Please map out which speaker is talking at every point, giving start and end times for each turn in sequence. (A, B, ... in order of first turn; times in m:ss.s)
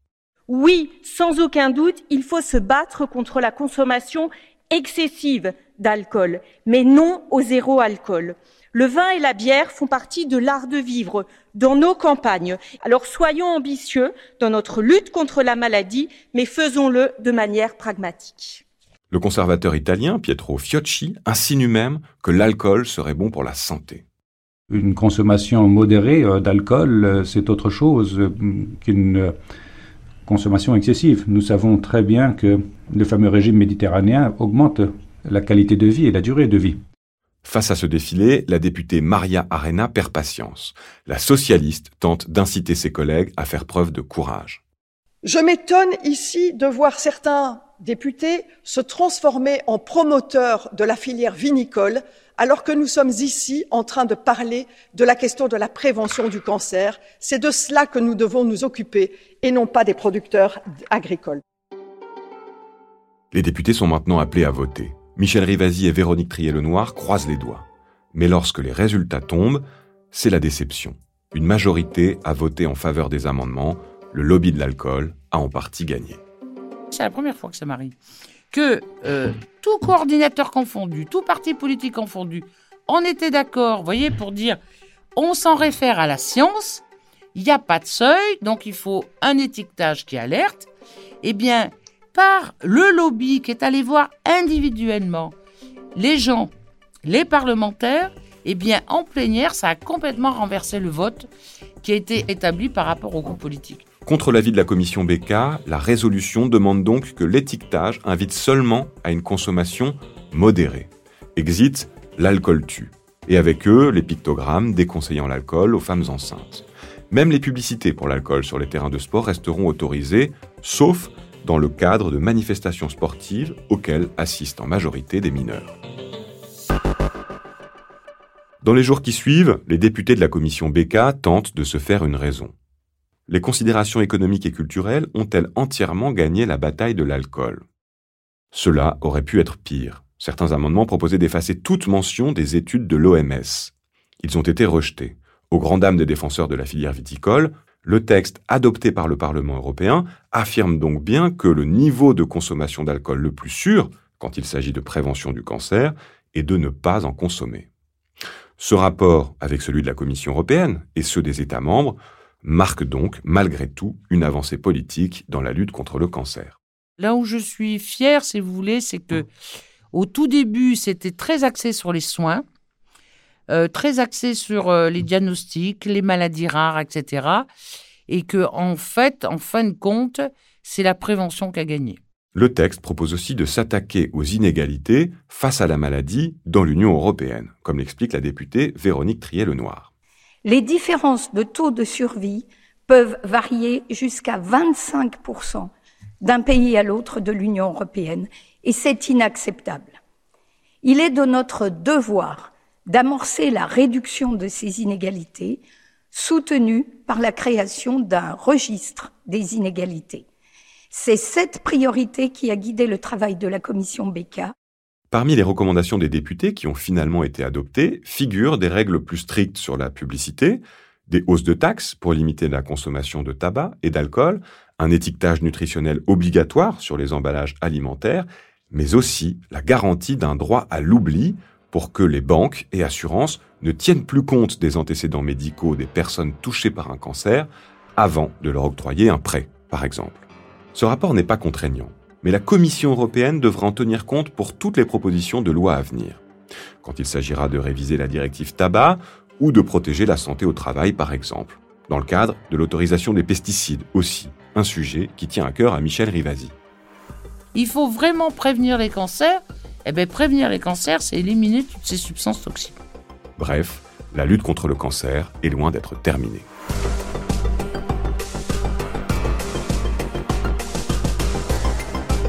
0:00.5-0:18.6 A
0:19.1-0:24.0 B
0:24.7-0:29.4 C
0:30.2-0:36.8 C
0:37.4-0:44.6 B
0:45.2-1:01.4 D
1:03.3-1:16.2 B
1:16.9-1:18.0 E
1:18.5-1:24.6 E
1:25.2-1:26.8 E
1:27.4-1:30.7 E
1:31.2-1:35.4 E
1:36.0-1:36.5 E
1:37.0-1:41.3 E
1:41.8-1:43.8 E
1:44.0-2:05.8 B
2:08.6-2:12.5 B
2:13.3-2:17.6 B
2:18.5-2:37.7 B
2:38.6-2:46.6 B
2:47.0-2:49.3 E
2:49.9-2:52.4 E
2:53.5-2:57.5 E
2:58.1-3:02.0 E
3:02.4-3:09.9 B
3:10.4-3:15.7 F
3:16.2-3:20.0 F
3:20.8-3:25.6 F
3:26.1-3:30.2 F
3:30.9-3:34.5 F
3:35.1-4:06.2 B
4:06.8-4:16.5 B
4:17.5-4:22.8 E
4:23.4-4:26.5 B